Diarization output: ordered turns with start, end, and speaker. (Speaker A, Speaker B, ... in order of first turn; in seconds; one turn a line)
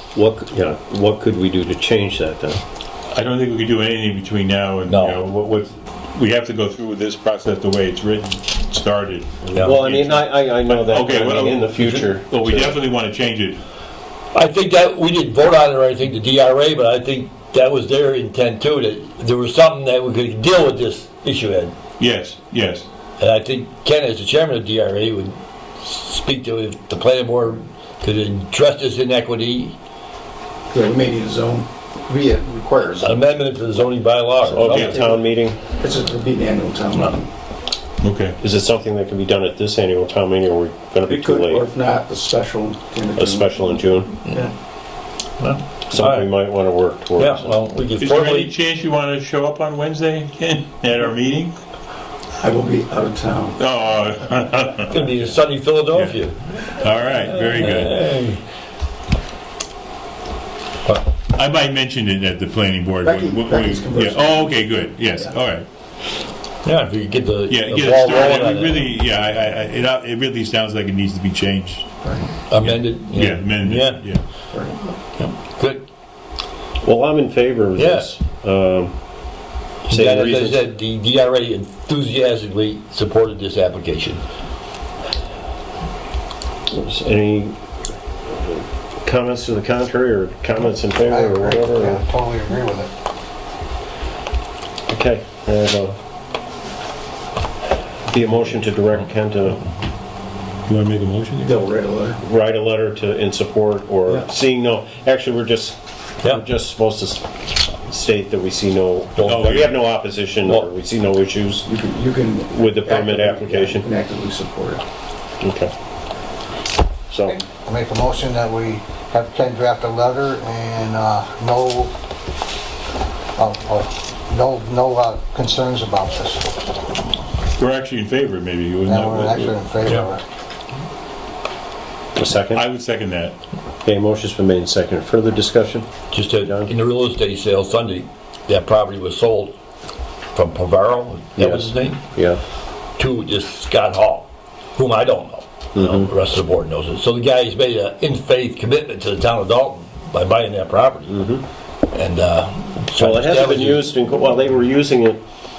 Speaker A: 0.1-2.6
Speaker B: 3.1-13.6
Speaker C: 4.9-5.2
Speaker A: 9.6-12.8
Speaker C: 14.3-21.8
Speaker B: 22.0-22.9
Speaker C: 23.2-29.8
Speaker D: 30.7-33.3
Speaker C: 33.0-34.9
Speaker A: 34.4-35.6
Speaker B: 34.6-35.2
Speaker D: 35.0-35.2
Speaker D: 35.7-37.3
Speaker B: 38.0-38.4
Speaker A: 38.4-41.7
Speaker D: 41.0-43.8
Speaker A: 43.2-44.2
Speaker C: 45.4-46.4
Speaker A: 45.9-47.6
Speaker C: 47.2-48.5
Speaker B: 48.0-51.5
Speaker D: 52.4-53.6
Speaker B: 53.6-55.1
Speaker C: 54.9-56.5
Speaker B: 55.9-58.1
Speaker C: 57.6-58.4
Speaker B: 61.3-65.7
Speaker D: 63.0-64.6
Speaker C: 66.6-68.8
Speaker B: 67.5-71.9
Speaker D: 72.0-72.3
Speaker C: 72.5-74.1
Speaker B: 72.5-74.2
Speaker D: 74.5-74.8
Speaker C: 75.2-75.8
Speaker A: 76.8-79.0
Speaker C: 77.8-78.2
Speaker C: 79.9-84.2
Speaker A: 79.9-80.6
Speaker A: 86.7-87.6
Speaker A: 88.3-92.1
Speaker E: 91.1-92.9
Speaker A: 94.9-96.0
Speaker A: 98.1-99.6
Speaker B: 100.7-101.6
Speaker D: 101.4-102.2
Speaker A: 102.2-111.7
Speaker C: 109.2-109.4
Speaker B: 109.2-110.1
Speaker D: 111.7-114.8
Speaker A: 112.5-113.9
Speaker A: 115.4-115.7
Speaker A: 117.1-117.4
Speaker E: 117.3-121.9
Speaker E: 123.4-126.5
Speaker B: 127.6-130.0
Speaker E: 128.9-130.2
Speaker A: 132.2-132.6
Speaker B: 132.5-133.3
Speaker A: 133.8-135.9
Speaker C: 136.1-139.5
Speaker A: 136.4-136.7
Speaker C: 140.3-142.2
Speaker A: 141.4-142.4
Speaker C: 143.0-151.2
Speaker A: 145.8-146.1
Speaker A: 151.1-151.4
Speaker C: 151.9-153.9
Speaker A: 153.0-155.2